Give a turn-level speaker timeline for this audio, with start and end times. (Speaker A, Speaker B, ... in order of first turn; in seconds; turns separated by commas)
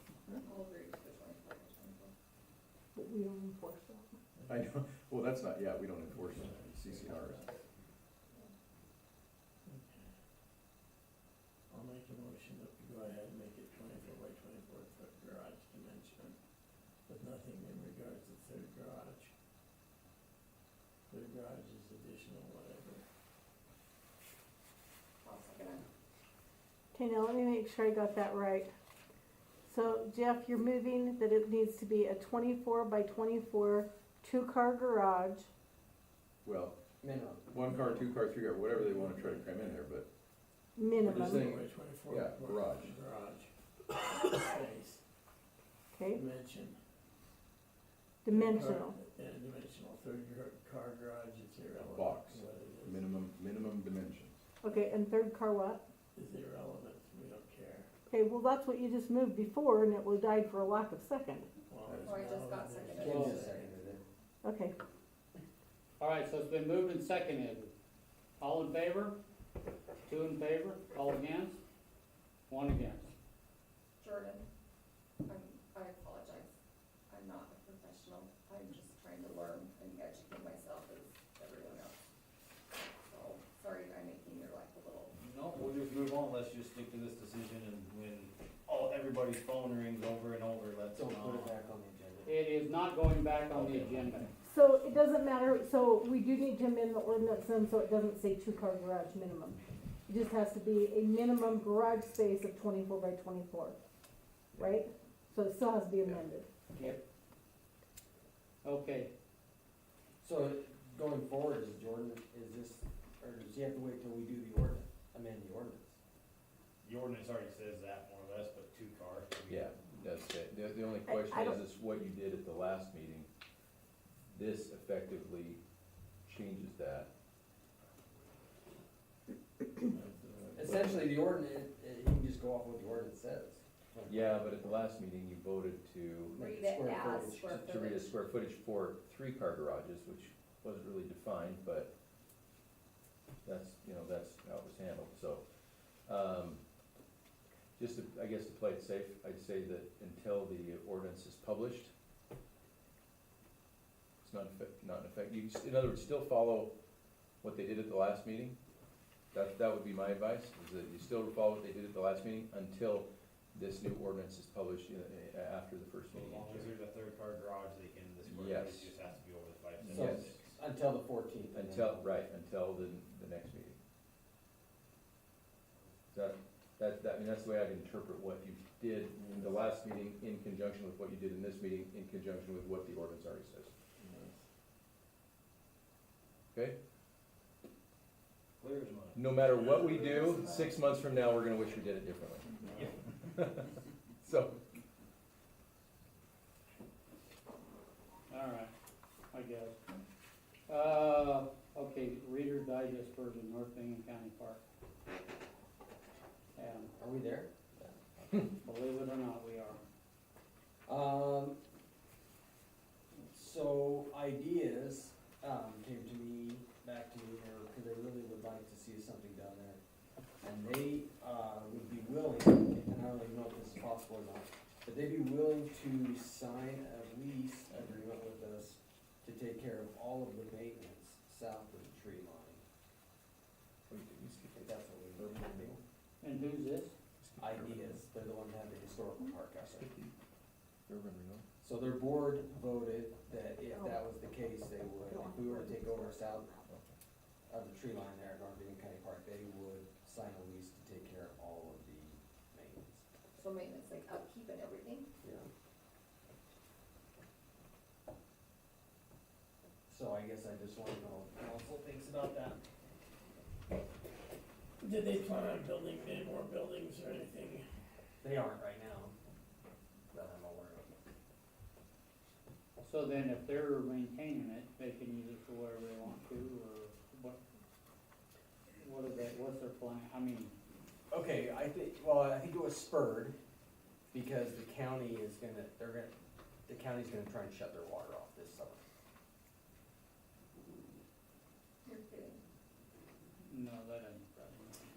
Speaker A: 0.4-2.1, Speaker B: 3.0-4.2, Speaker C: 4.5-7.5, Speaker D: 6.1-7.6, Speaker D: 9.7-10.1, Speaker D: 11.7-16.4, Speaker D: 17.1-19.3, Speaker D: 21.1-23.1, Speaker A: 25.2-25.9, Speaker B: 26.9-28.7, Speaker B: 29.7-35.5, Speaker C: 36.4-36.8, Speaker E: 37.0-37.5, Speaker C: 37.5-40.1, Speaker D: 38.7-39.5, Speaker B: 40.8-41.6, Speaker C: 41.0-42.9, Speaker D: 41.0-45.0, Speaker B: 45.9-46.2, Speaker D: 46.1-46.8, Speaker B: 48.2-49.0, Speaker D: 48.3-53.0, Speaker C: 51.8-54.4, Speaker B: 54.6-55.8, Speaker D: 56.1-57.9, Speaker B: 58.1-61.5, Speaker D: 61.7-63.7, Speaker C: 61.9-62.2, Speaker A: 62.0-63.3, Speaker E: 62.9-64.0, Speaker F: 63.1-63.4, Speaker B: 64.4-64.7, Speaker F: 66.0-67.7, Speaker F: 68.4-69.2, Speaker F: 70.1-71.6, Speaker F: 72.5-73.1, Speaker A: 74.0-74.5, Speaker A: 75.3-76.5, Speaker A: 77.1-82.0, Speaker A: 83.1-85.2, Speaker G: 85.2-91.5, Speaker E: 90.9-92.3, Speaker F: 92.2-94.3, Speaker G: 93.5-94.1, Speaker B: 94.4-103.8, Speaker B: 104.6-106.5, Speaker E: 106.7-107.0, Speaker F: 108.6-109.1, Speaker E: 110.2-116.0, Speaker G: 116.8-119.7, Speaker C: 119.5-123.3, Speaker B: 121.1-121.6, Speaker C: 124.3-125.6, Speaker C: 126.2-127.1, Speaker D: 129.9-131.2, Speaker E: 130.6-134.8, Speaker C: 134.1-136.5, Speaker E: 136.3-137.5, Speaker A: 136.4-138.2, Speaker C: 137.5-141.9, Speaker C: 143.4-145.4, Speaker C: 146.1-146.6, Speaker C: 147.8-151.9, Speaker C: 154.2-156.7, Speaker C: 157.4-158.6, Speaker C: 159.3-166.7, Speaker G: 166.1-170.6, Speaker C: 168.2-168.9, Speaker C: 169.8-170.3, Speaker E: 169.9-172.1, Speaker C: 171.5-173.8, Speaker C: 176.1-183.7, Speaker D: 179.2-179.6, Speaker D: 184.0-184.4, Speaker G: 188.6-190.7, Speaker C: 189.2-192.6, Speaker C: 193.2-194.6, Speaker F: 198.3-198.7, Speaker F: 199.3-199.8, Speaker F: 200.7-204.6, Speaker F: 206.6-206.9, Speaker E: 207.0-208.2, Speaker F: 208.5-209.8, Speaker E: 210.9-211.6, Speaker E: 213.3-219.8, Speaker E: 220.4-232.6, Speaker C: 233.9-235.7, Speaker E: 234.5-235.8, Speaker F: 236.2-236.9, Speaker C: 237.2-238.0, Speaker E: 237.4-239.9, Speaker C: 239.7-240.1, Speaker C: 240.9-241.4, Speaker E: 241.6-246.6, Speaker B: 245.1-246.6, Speaker C: 246.7-246.9, Speaker E: 247.5-253.1, Speaker A: 253.4-255.1, Speaker E: 255.2-255.5, Speaker E: 259.9-262.6, Speaker D: 264.8-267.6, Speaker E: 268.2-269.2, Speaker E: 270.1-270.9, Speaker F: 272.8-277.4, Speaker F: 278.8-280.5, Speaker E: 281.1-283.4, Speaker E: 284.1-286.1, Speaker E: 286.7-288.8, Speaker A: 291.9-292.4, Speaker F: 293.4-294.8